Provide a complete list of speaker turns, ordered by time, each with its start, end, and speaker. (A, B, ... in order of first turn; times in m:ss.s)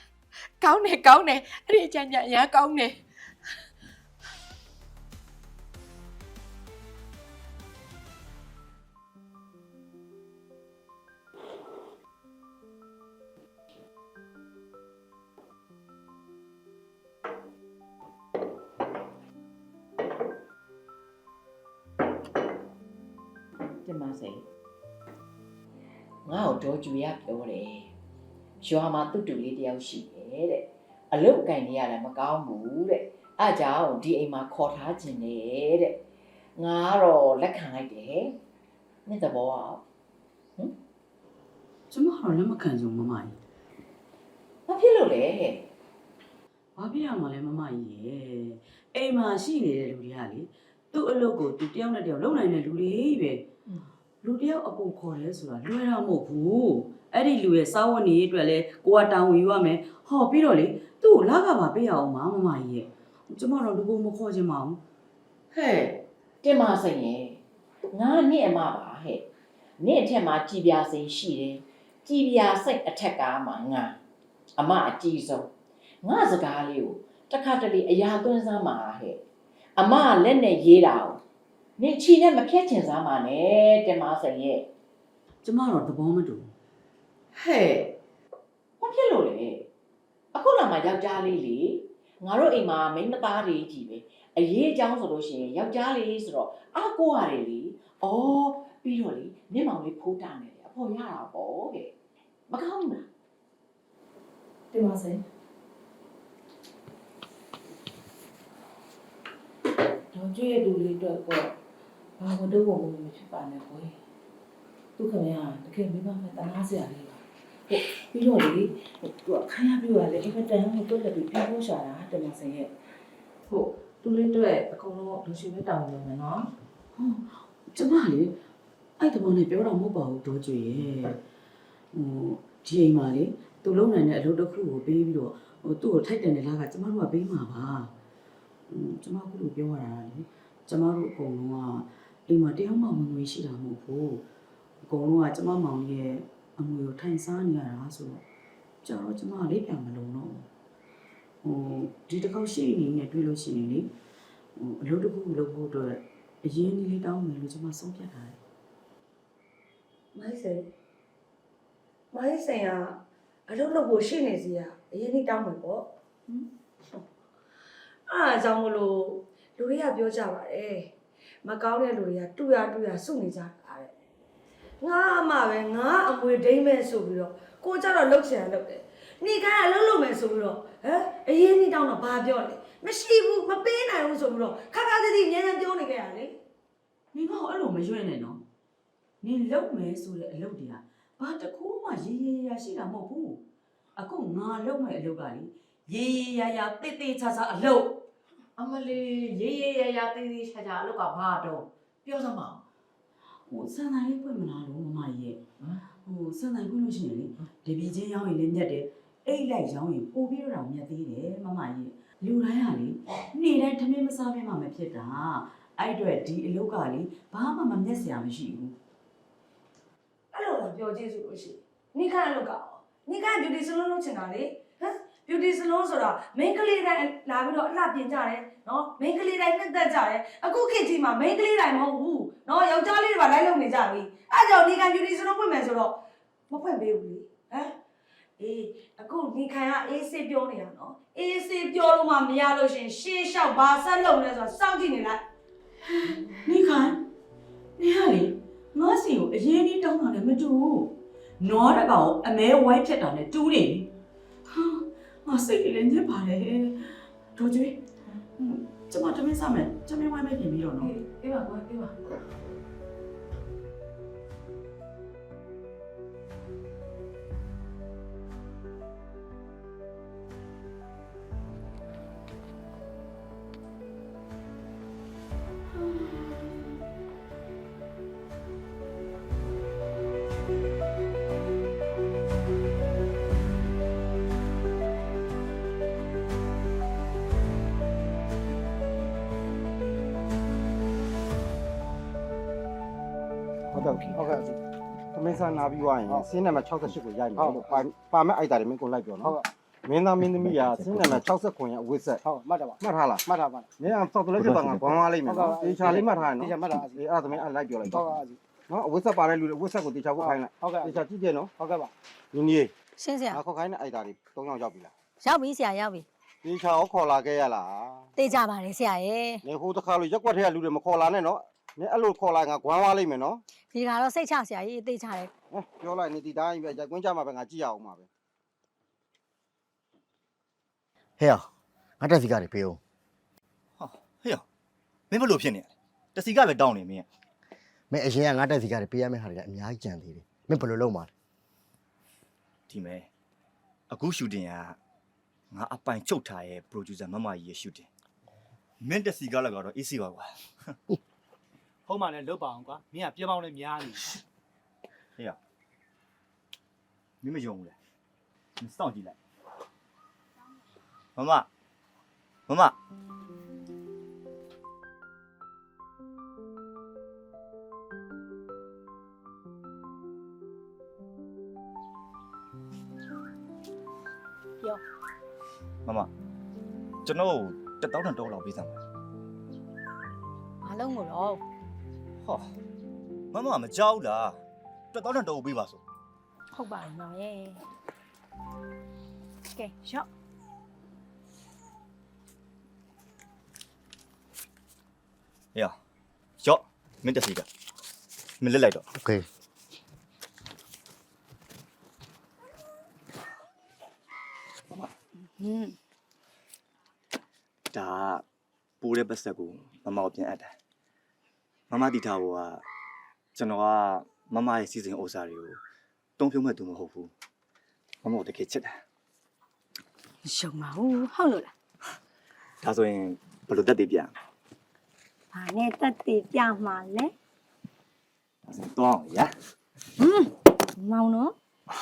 0:00.6-0:03.0 A
0:23.9-0:24.2 A
0:26.7-0:27.4 A
0:31.8-0:32.4 A
0:34.9-0:35.3 A
0:37.0-0:37.7 A
0:39.3-0:39.6 A
0:41.9-0:43.4 B
0:44.7-0:45.3 A
0:46.8-0:53.5 B
0:54.2-1:04.8 B
1:05.5-1:05.9 A
1:06.4-1:07.2 A
1:08.0-1:09.0 A
1:09.8-1:11.5 A
1:12.1-1:13.8 A
1:14.6-1:15.3 A
1:16.0-1:16.9 A
1:18.4-1:19.0 A
1:19.8-1:21.0 A
1:21.8-1:24.5 A
1:25.4-1:26.5 B
1:27.4-1:27.9 A
1:28.8-1:29.5 A
1:30.4-1:31.7 A
1:32.3-1:36.0 A
1:36.5-1:41.6 A
1:42.5-1:43.0 A
1:44.7-1:45.2 C
1:50.1-1:51.5 C
1:52.2-1:53.9 C
1:55.0-2:02.7 C
2:03.5-2:06.5 C
2:06.9-2:08.4 B
2:09.0-2:11.2 B
2:11.9-2:17.9 B
2:18.7-2:24.2 B
2:24.8-2:28.2 B
2:28.8-2:30.5 B
2:31.4-2:33.9 B
2:34.6-2:38.4 B
2:40.1-2:40.7 D
2:42.1-2:45.9 D
2:48.1-2:53.9 D
2:54.8-3:06.4 D
3:07.1-3:08.4 B
3:09.2-3:13.4 B
3:14.0-3:18.0 B
3:18.6-3:22.6 A
3:23.5-3:25.4 B
3:26.0-3:38.8 B
3:40.3-3:57.7 D
3:58.4-4:05.2 D
4:06.4-4:07.0 B
4:07.8-4:13.9 B
4:14.5-4:17.8 B
4:18.4-4:20.9 B
4:20.8-4:21.9 C
4:53.8-4:54.4 E
4:55.2-5:12.7 E
5:13.0-5:13.4 F
5:13.3-5:14.9 E
5:15.2-5:16.0 F
5:16.4-5:18.1 E
5:18.2-5:19.4 F
5:19.4-5:23.4 E
5:23.7-5:25.3 F
5:25.5-5:28.1 E
5:31.2-5:31.5 G
5:32.0-5:32.8 G
5:33.8-5:34.4 H
5:35.1-5:37.1 H
5:37.9-5:41.1 G
5:42.7-5:43.1 H
5:43.9-5:44.8 H
5:45.5-5:47.9 H
5:48.8-5:50.5 H
5:51.8-5:54.2 I
5:57.2-5:57.8 H
5:58.6-5:59.2 H
6:01.2-6:01.5 H
6:02.5-6:02.8 H
6:15.8-6:16.1 H
6:17.0-6:18.8 H
6:20.6-6:21.4 F
6:22.2-6:22.5 H
6:23.3-6:24.4 H
6:24.9-6:25.8 H
6:26.5-6:27.6 F
6:29.5-6:30.1 F
6:36.4-6:37.5 H
6:38.4-6:38.8 H
6:39.0-6:39.2 G
6:45.4-6:45.7 F
6:47.7-6:48.2 H
6:48.8-6:50.5 H
6:51.7-6:52.6 H
6:53.3-6:55.6 H
6:56.2-6:57.1 H
6:58.0-6:58.8 H
7:00.2-7:01.5 F
7:02.6-7:04.1 H
7:05.3-7:07.1 F
7:08.5-7:09.3 H
7:10.0-7:11.3 F